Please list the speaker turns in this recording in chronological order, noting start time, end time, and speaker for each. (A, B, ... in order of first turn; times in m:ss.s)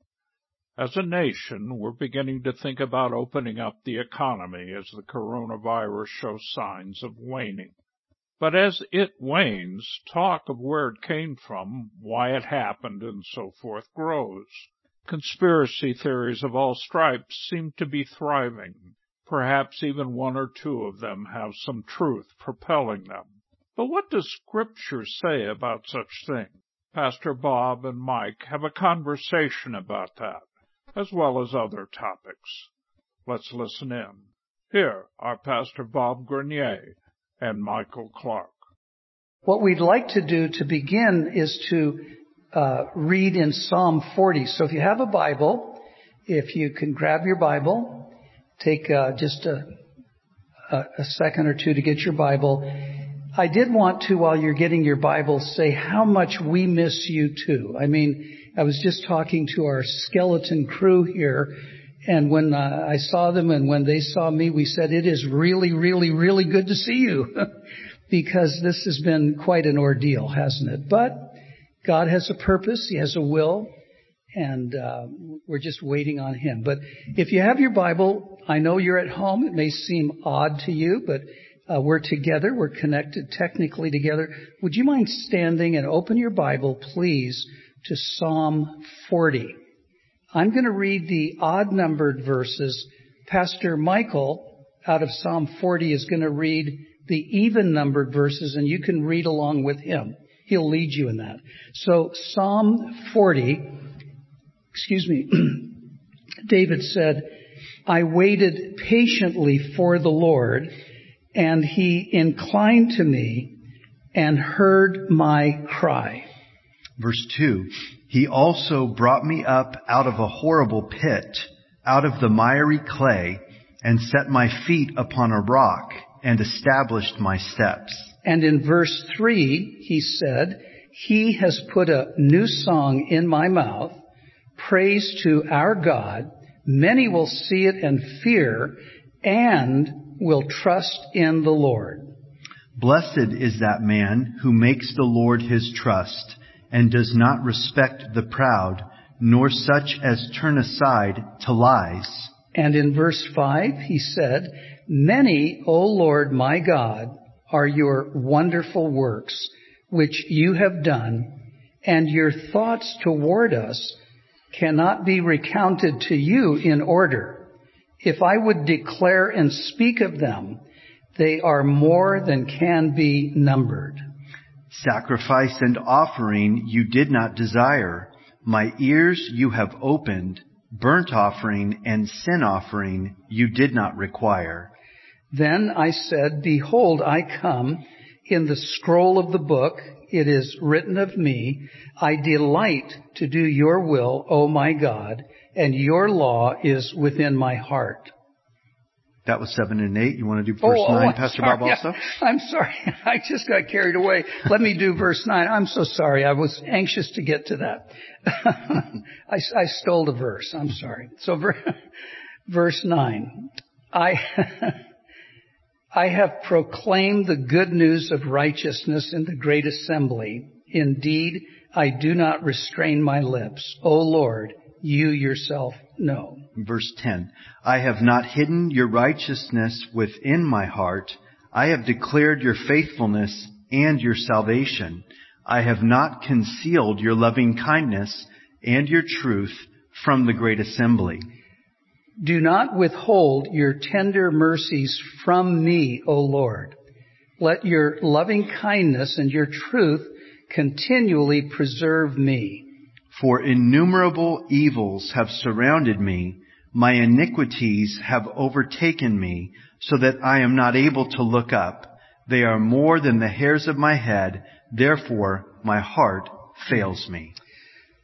0:00.8-0:07.7 A
0:08.4-0:32.7 A
0:33.3-0:38.5 A
0:39.4-0:49.7 B
0:50.7-1:07.5 B
1:08.1-1:13.7 B
1:14.4-1:29.6 B
1:30.3-1:43.8 B
1:44.7-1:45.9 B
1:46.5-1:50.7 B
1:51.4-1:53.6 B
1:54.1-1:56.3 B
1:57.0-2:08.1 C
2:08.2-2:14.0 B
2:14.6-2:22.1 B
2:22.8-2:32.3 C
2:32.5-2:44.0 B
2:44.5-2:47.5 B
2:48.0-2:50.6 B
2:51.2-2:54.0 B
2:54.7-3:04.7 C
3:05.3-3:18.1 B
3:19.3-3:22.0 C
3:20.6-3:31.8 B
3:32.5-3:34.8 B
3:35.9-3:46.5 B
3:46.6-4:01.3 C
4:02.2-4:06.8 B
4:07.4-4:12.7 B
4:13.1-4:27.4 C